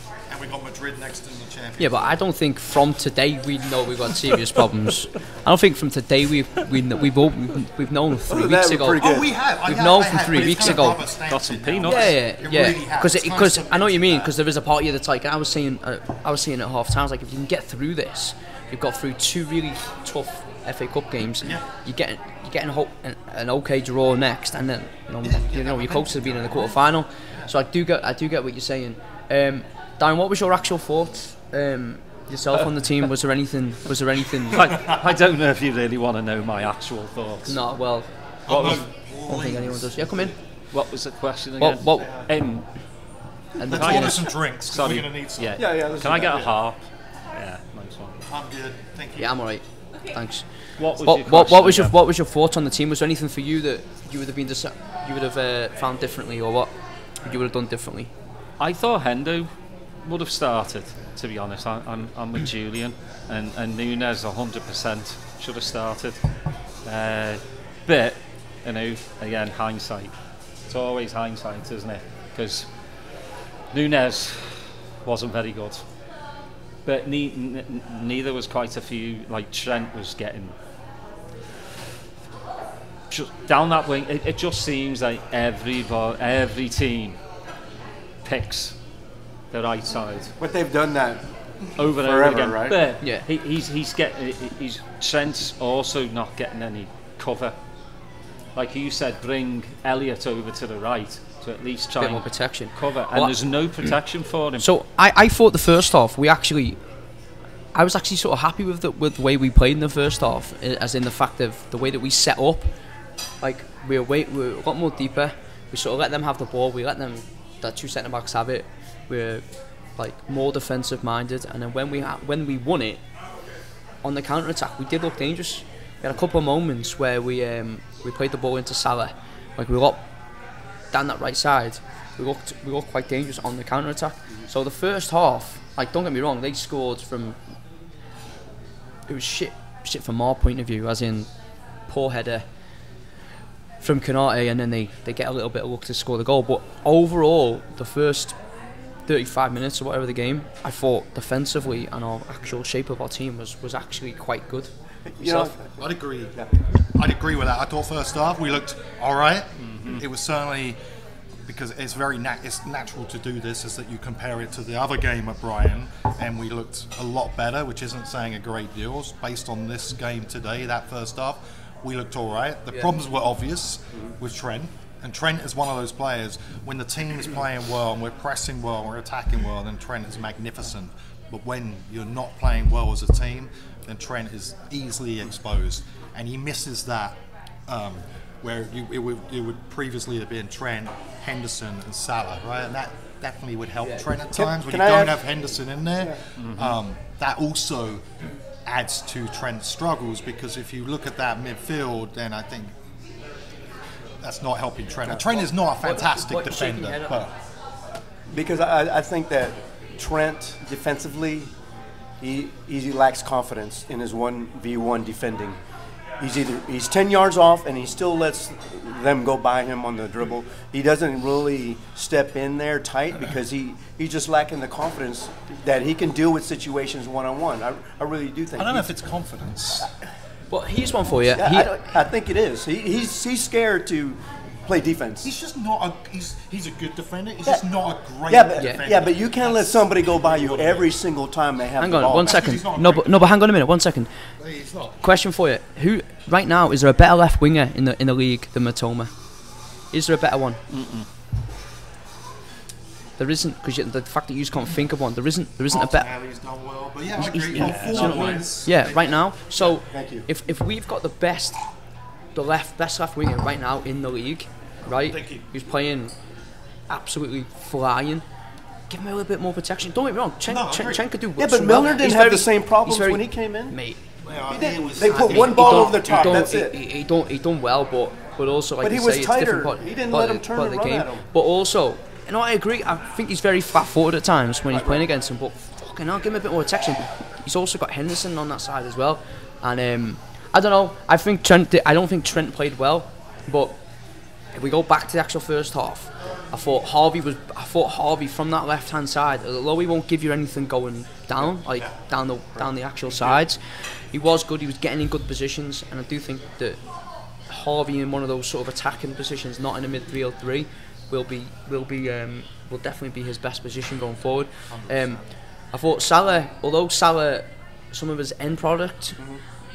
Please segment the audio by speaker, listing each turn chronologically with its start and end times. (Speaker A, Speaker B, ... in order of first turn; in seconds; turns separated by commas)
Speaker A: 0.3-2.1, Speaker B: 1.8-9.1, Speaker C: 8.3-9.3, Speaker A: 9.0-14.3, Speaker B: 9.7-11.0, Speaker D: 11.3-12.1, Speaker B: 11.8-34.6, Speaker A: 25.2-26.8, Speaker D: 34.5-37.6, Speaker A: 34.7-35.0, Speaker B: 37.5-40.3, Speaker A: 38.5-40.4, Speaker D: 40.7-42.6, Speaker B: 41.6-42.1, Speaker B: 43.6-44.2, Speaker A: 43.7-45.6, Speaker D: 43.7-46.8, Speaker C: 45.6-46.5, Speaker D: 47.3-48.2, Speaker A: 48.2-49.3, Speaker B: 49.2-56.7, Speaker D: 50.8-51.9, Speaker B: 57.2-58.1, Speaker D: 58.6-59.5, Speaker D: 60.0-66.2, Speaker D: 66.8-70.1, Speaker D: 70.7-72.7, Speaker D: 73.7-75.8, Speaker D: 76.9-80.5, Speaker D: 83.1-87.2, Speaker D: 88.2-88.8, Speaker D: 89.5-90.3, Speaker C: 90.4-91.2, Speaker D: 91.8-97.5, Speaker C: 91.9-92.8, Speaker D: 98.5-104.7, Speaker B: 102.0-103.4, Speaker B: 104.6-106.8, Speaker B: 107.7-112.7, Speaker B: 113.4-119.4, Speaker B: 120.0-123.0, Speaker B: 124.0-130.1, Speaker B: 130.9-137.4, Speaker B: 139.1-141.3, Speaker B: 141.9-142.4, Speaker B: 143.8-148.4, Speaker B: 149.1-155.6, Speaker C: 155.1-155.8, Speaker A: 155.8-156.3, Speaker A: 156.9-160.8, Speaker D: 159.6-160.0, Speaker A: 161.4-198.1, Speaker C: 194.3-195.2, Speaker D: 196.4-196.8, Speaker A: 198.7-202.7, Speaker A: 204.2-207.3, Speaker C: 205.1-205.5, Speaker B: 205.8-207.2, Speaker C: 208.3-211.5, Speaker C: 212.2-215.6, Speaker C: 216.2-228.9, Speaker A: 228.6-229.9, Speaker B: 230.5-231.7, Speaker C: 231.3-235.3, Speaker A: 235.2-240.9, Speaker C: 238.3-242.4, Speaker B: 238.6-238.8, Speaker B: 241.8-244.2, Speaker A: 242.2-243.3, Speaker A: 244.4-245.0, Speaker B: 245.0-249.1, Speaker B: 249.9-250.6, Speaker D: 250.7-251.1, Speaker B: 253.2-256.1, Speaker A: 255.7-259.1, Speaker B: 257.1-261.6, Speaker D: 257.6-258.4, Speaker C: 259.8-260.3, Speaker B: 262.4-266.1, Speaker A: 265.1-265.5, Speaker B: 266.9-268.2, Speaker B: 268.9-274.0, Speaker A: 270.5-271.0, Speaker C: 271.4-273.8, Speaker A: 274.2-276.4, Speaker C: 274.5-276.8, Speaker B: 275.1-293.8, Speaker C: 278.8-281.2, Speaker C: 284.7-285.0, Speaker B: 294.5-306.8, Speaker C: 302.6-303.4, Speaker B: 307.5-315.2, Speaker A: 314.7-315.2, Speaker B: 315.7-319.2